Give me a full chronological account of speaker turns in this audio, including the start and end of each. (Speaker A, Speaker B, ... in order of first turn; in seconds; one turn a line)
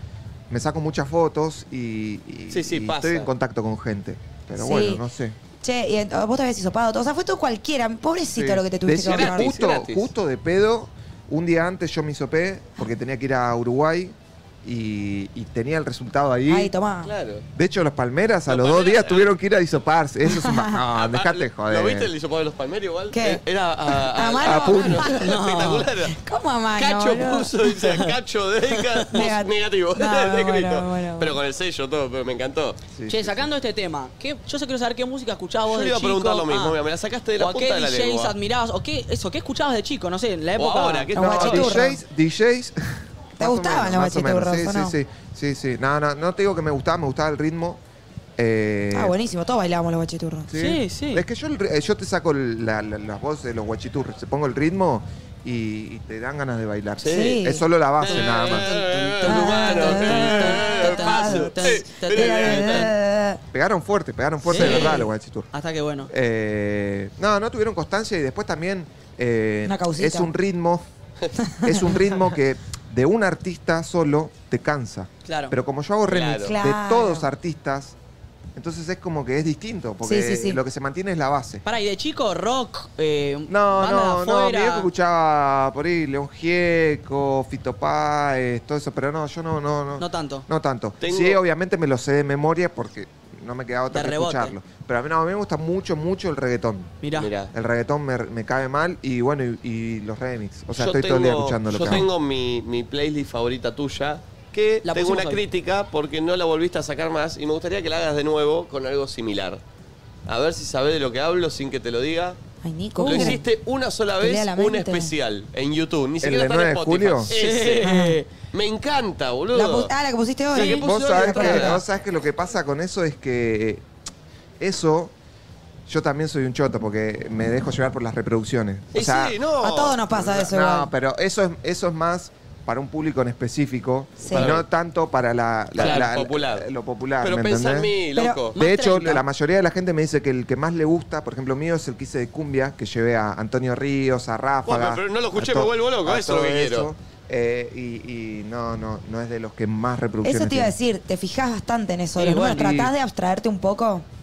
Speaker A: 0.5-5.4
Speaker B: 2.5-3.3
Speaker C: 4.6-5.0
Speaker C: 5.6-9.5
Speaker A: 8.3-16.7
Speaker B: 9.1-10.1
Speaker C: 16.5-17.1
Speaker B: 17.0-17.4
Speaker A: 17.5-22.1
Speaker B: 18.5-19.4
Speaker C: 20.3-20.8
Speaker B: 21.0-26.2
Speaker C: 23.1-25.2
Speaker A: 24.4-25.2
Speaker D: 25.0-25.9
Speaker C: 26.1-27.6
Speaker B: 26.7-32.8
Speaker C: 29.1-31.4
Speaker A: 32.9-33.4
Speaker D: 33.1-36.8
Speaker B: 35.7-38.4
Speaker D: 37.4-41.1
Speaker B: 40.6-41.8
Speaker C: 41.1-42.0
Speaker A: 41.2-47.8
Speaker C: 43.4-44.9
Speaker A: 48.4-49.1
Speaker C: 48.9-50.5
Speaker A: 50.5-58.7
Speaker D: 50.5-51.2
Speaker B: 57.0-57.4
Speaker C: 57.1-57.6
Speaker B: 58.0-62.9
Speaker D: 58.0-62.8
Speaker C: 59.2-63.4
Speaker A: 63.5-65.5
Speaker D: 64.5-66.1
Speaker B: 64.5-64.9
Speaker A: 66.1-70.8
Speaker C: 69.7-70.3
Speaker C: 71.6-71.9
Speaker A: 71.6-77.9
Speaker D: 75.2-75.6
Speaker B: 76.1-76.5
Speaker C: 76.4-77.3
Speaker A: 78.5-81.6
Speaker C: 80.0-80.6
Speaker D: 81.7-84.9
Speaker A: 83.5-96.9
Speaker D: 90.0-90.5
Speaker B: 91.0-91.4
Speaker D: 93.9-94.5
Speaker D: 97.0-97.3
Speaker B: 97.2-97.5
Speaker A: 97.5-102.1
Speaker B: 100.7-109.6
Speaker D: 104.8-105.4
Speaker B: 110.3-112.4
Speaker C: 112.6-113.4
Speaker D: 113.0-113.3
Speaker B: 113.0-119.9
Speaker C: 114.2-115.1
Speaker A: 116.2-117.3
Speaker D: 117.3-118.3
Speaker C: 117.8-118.2
Speaker C: 119.5-121.8
Speaker B: 120.5-121.8
Speaker A: 120.6-123.9
Speaker A: 124.6-125.1
Speaker A: 125.9-129.4
Speaker B: 128.9-130.0
Speaker C: 129.6-130.9
Speaker A: 130.1-137.9
Speaker C: 134.2-134.5
Speaker B: 134.3-134.7
Speaker B: 135.8-136.7
Speaker D: 135.8-136.1
Speaker B: 137.2-138.6
Speaker C: 138.2-139.2
Speaker A: 138.5-150.8
Speaker D: 138.7-139.2
Speaker B: 144.7-146.9
Speaker C: 150.2-154.1
Speaker A: 152.2-152.9